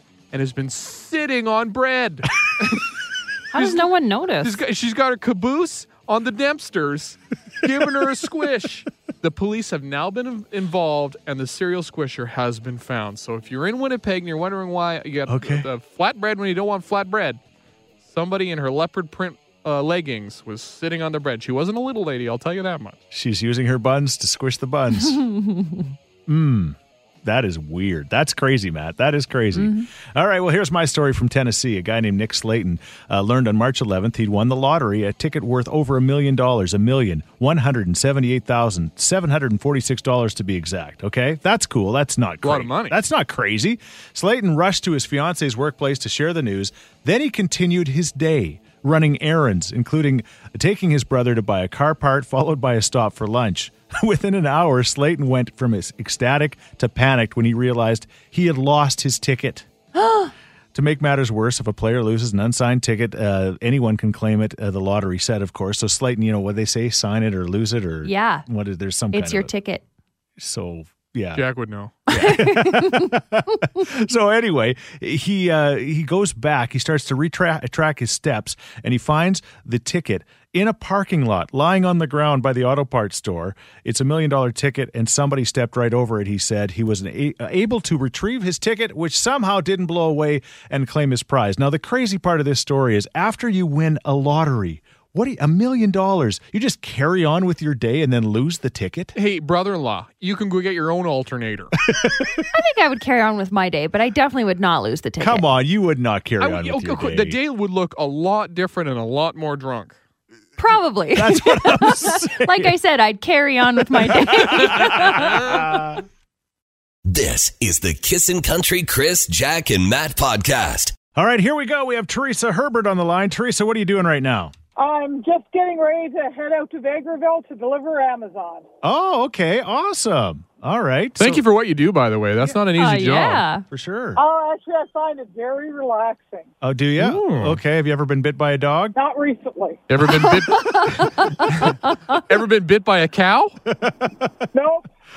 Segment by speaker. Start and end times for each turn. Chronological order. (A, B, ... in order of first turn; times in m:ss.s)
0:00.3-0:03.0 A
0:03.5-0:04.6 B
0:03.5-0:03.9 A
0:04.4-0:17.4 A
0:15.3-0:15.7 C
0:18.0-0:23.0 A
0:23.1-0:25.2 C
0:25.1-0:25.9 B
0:26.3-0:59.6 C
0:29.5-0:29.9 B
0:42.4-0:43.0 A
0:59.9-1:00.3 B
1:00.7-1:09.5 C
1:08.0-1:08.4 B
1:09.1-1:09.8 B
1:10.4-1:11.4 C
1:11.3-1:12.0 A
1:12.1-1:39.1 C
1:12.1-1:13.2 B
1:39.1-1:41.7 A
1:41.9-1:42.4 C
1:42.5-1:45.5 B
1:45.2-1:47.4 C
1:46.4-1:50.0 A
1:50.6-1:55.9 B
1:51.1-1:52.8 C
1:53.8-1:56.0 C
1:57.0-2:01.0 D
2:01.1-2:04.5 C
2:04.8-2:08.6 E
2:08.8-2:11.4 C
2:11.2-2:13.4 A
2:12.8-2:13.6 B
2:13.7-2:14.2 C
2:14.2-2:16.5 E
2:16.6-2:19.0 C
2:17.0-2:17.6 A
2:18.9-2:19.8 E
2:19.9-2:23.6 A
2:20.1-2:22.2 B
2:23.7-2:24.1 C
2:24.5-2:24.9 E